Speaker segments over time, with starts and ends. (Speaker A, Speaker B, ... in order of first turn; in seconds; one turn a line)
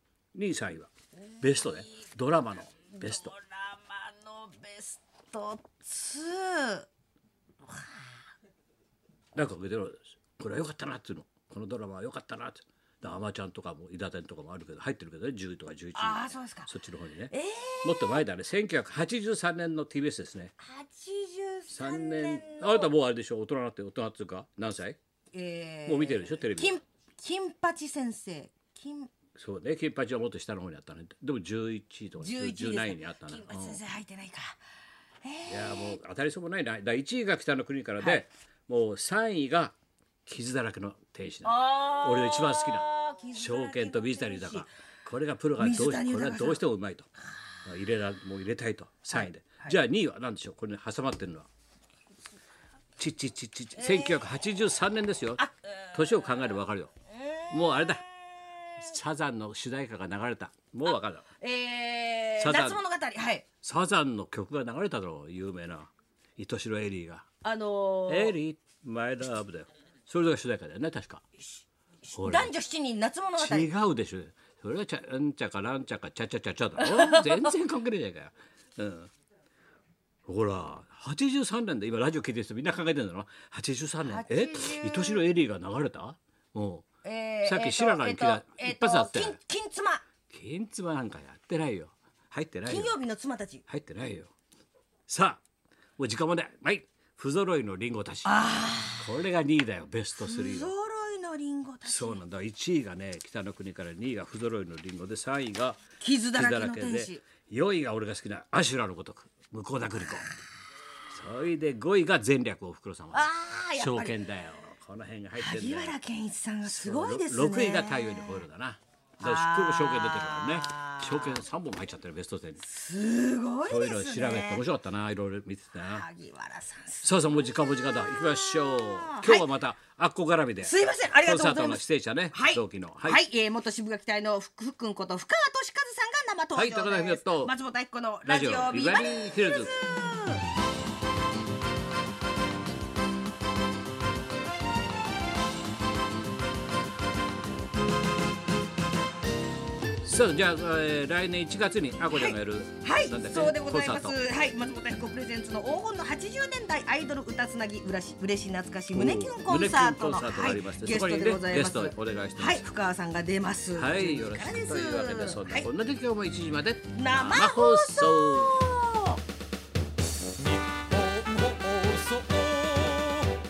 Speaker A: 0.3-3.4
Speaker B: 1.4-1.8
Speaker B: 2.9-6.9
Speaker B: 7.7-8.1
Speaker A: 9.3-17.3
Speaker B: 15.9-16.7
Speaker B: 17.3-18.2
Speaker A: 17.8-20.5
Speaker B: 20.6-22.9
Speaker A: 21.7-25.0
Speaker B: 25.3-29.1
Speaker A: 25.9-26.8
Speaker A: 29.4-33.8
Speaker B: 32.2-34.6
Speaker B: 35.2-36.0
Speaker A: 35.5-39.7
Speaker B: 38.0-38.2
Speaker A: 40.2-47.1
Speaker B: 41.4-44.7
Speaker B: 45.6-46.6
Speaker A: 47.6-51.5
Speaker B: 49.1-49.8
Speaker A: 53.0-55.4
Speaker B: 53.8-54.3
Speaker B: 55.4-56.5
Speaker A: 55.9-56.9
Speaker B: 57.1-58.8
Speaker A: 57.5-58.0
Speaker A: 58.8-61.2
Speaker B: 61.4-63.4
Speaker A: 62.4-62.8
Speaker A: 63.6-67.3
Speaker B: 67.4-68.4
Speaker A: 68.1-71.2
Speaker B: 72.1-73.7
Speaker A: 72.2-72.5
Speaker A: 73.4-79.1
Speaker B: 76.8-77.5
Speaker A: 80.2-86.9
Speaker B: 84.0-85.2
Speaker B: 87.0-90.0
Speaker A: 87.4-89.4
Speaker A: 90.3-92.9
Speaker B: 92.7-93.6
Speaker A: 93.7-94.3
Speaker A: 95.1-95.4
Speaker A: 96.0-98.4
Speaker B: 98.2-99.1
Speaker A: 99.0-100.7
Speaker B: 100.2-102.2
Speaker A: 101.8-105.8
Speaker B: 106.0-107.2
Speaker A: 106.3-110.3
Speaker A: 111.1-116.0
Speaker B: 113.1-114.2
Speaker B: 115.3-118.5
Speaker A: 116.6-122.6
Speaker B: 119.2-121.4
Speaker B: 122.6-124.6
Speaker A: 123.6-126.0
Speaker B: 125.7-129.5
Speaker A: 127.0-133.2
Speaker B: 130.6-140.4
Speaker A: 136.5-137.5
Speaker A: 138.2-139.7
Speaker A: 150.0-154.2
Speaker B: 152.1-165.7
Speaker A: 158.9-162.7
Speaker A: 163.7-168.6
Speaker B: 166.9-169.2
Speaker B: 171.5-173.1